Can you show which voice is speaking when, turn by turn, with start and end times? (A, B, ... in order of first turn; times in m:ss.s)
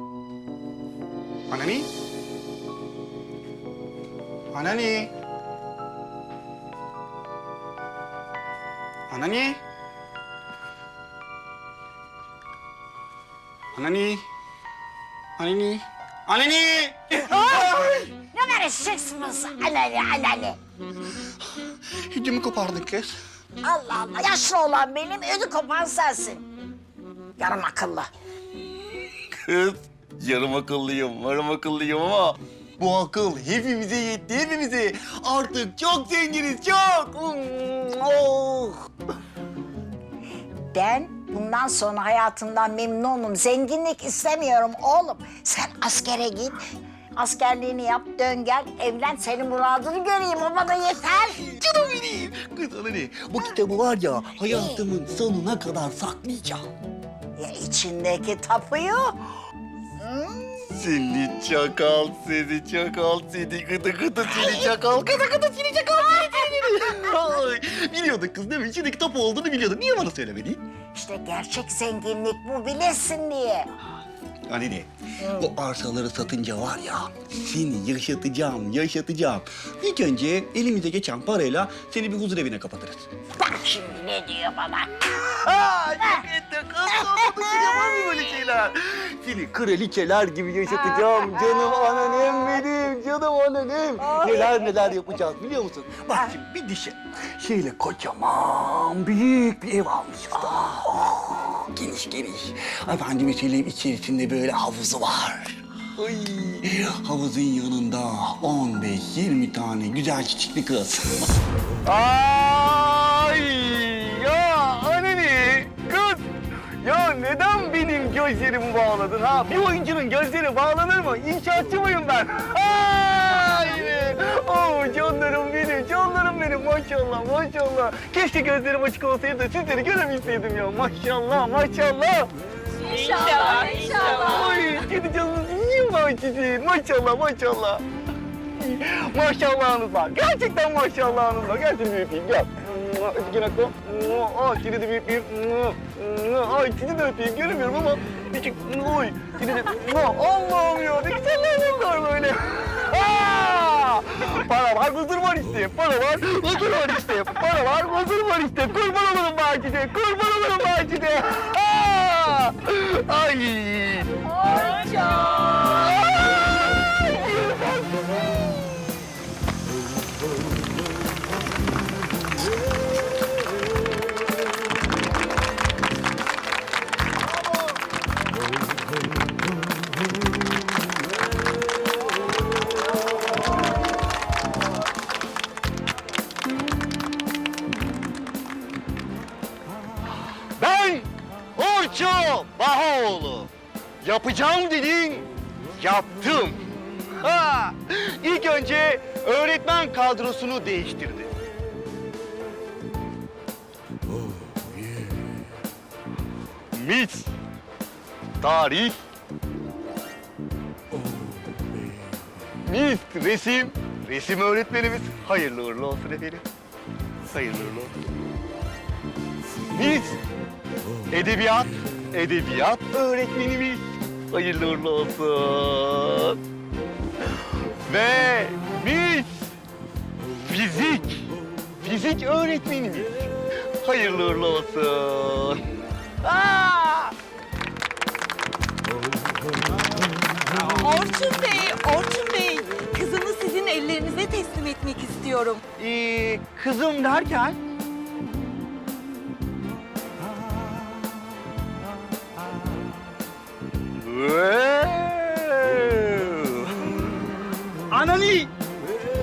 0:01.5-0:01.9 A
0:04.5-0:05.1 A
0:09.1-0:09.6 A
0:13.7-0:14.2 A
0:15.4-0:18.1 A
0:17.3-0:20.6 B
0:22.1-0:23.1 A
0:23.6-0:26.4 B
0:27.4-0:28.1 B
0:29.3-0:38.8 A
0:40.7-0:46.6 B
0:47.2-0:51.4 B
0:51.4-0:56.6 A
0:54.5-0:54.8 B
0:57.4-0:59.2 B
1:00.0-1:00.5 B
1:00.6-1:10.6 A
1:04.2-1:04.8 B
1:06.2-1:07.1 B
1:10.9-1:13.7 B
1:14.5-1:23.1 A
1:23.4-1:26.2 B
1:25.4-1:51.1 A
1:26.9-1:28.2 B
1:30.7-1:32.6 B
1:34.0-1:35.0 B
1:51.8-1:56.3 A
1:56.8-2:12.3 A
2:12.8-2:14.5 C
2:14.1-2:17.8 A
2:18.6-2:44.2 A
2:44.4-2:45.3 B
2:44.5-2:45.6 C
2:45.7-2:46.0 A
2:47.0-2:47.7 A
3:10.6-3:13.5 A
3:14.0-3:21.3 A
3:26.7-3:27.3 A
3:28.4-3:29.0 A
3:32.6-3:36.4 A
3:37.3-3:37.9 A
3:39.7-3:40.2 A
3:41.1-3:46.4 A
3:47.9-3:49.4 A
3:50.4-3:51.3 A
3:51.8-3:53.2 A
3:53.8-3:55.6 A
3:56.2-3:57.1 A
4:00.6-4:05.6 C
4:05.8-4:07.6 A
4:14.0-4:16.9 A
4:17.9-4:18.5 A